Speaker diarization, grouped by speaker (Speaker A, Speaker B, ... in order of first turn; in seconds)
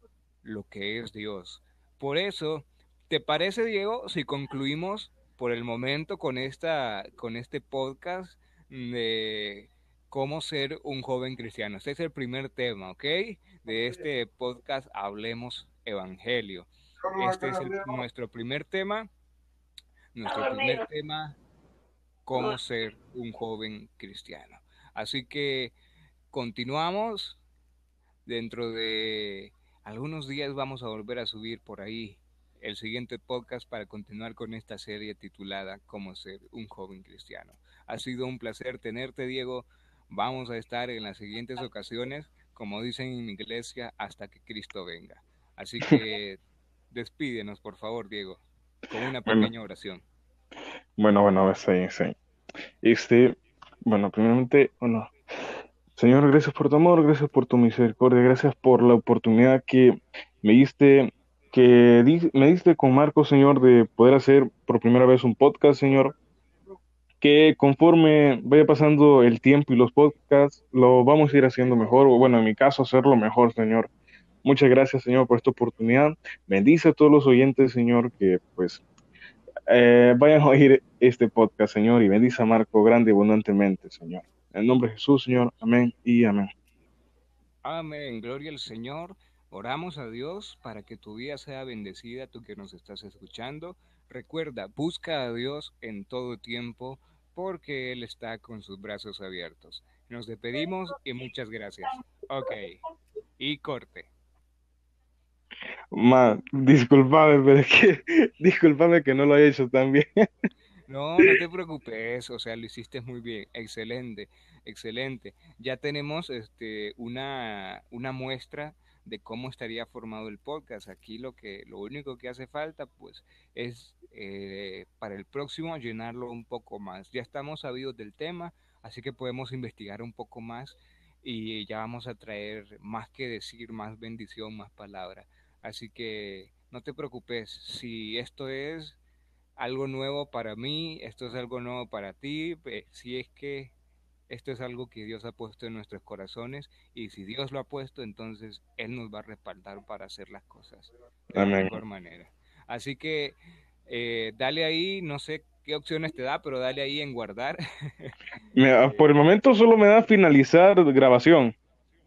Speaker A: 0.4-19.1, 20.1-21.4, 22.3-25.8, 26.3-27.4, 28.3-50.1, 87.6-102.8, 103.4-104.1, 110.9-139.0, 139.6-143.7, 144.3-158.1, 158.8-159.1
Speaker B: 51.0-52.1, 52.8-55.1, 56.0-66.2, 67.2-73.9, 74.4-78.8, 79.7-86.5, 105.9-110.1, 151.3-151.8, 158.5-161.6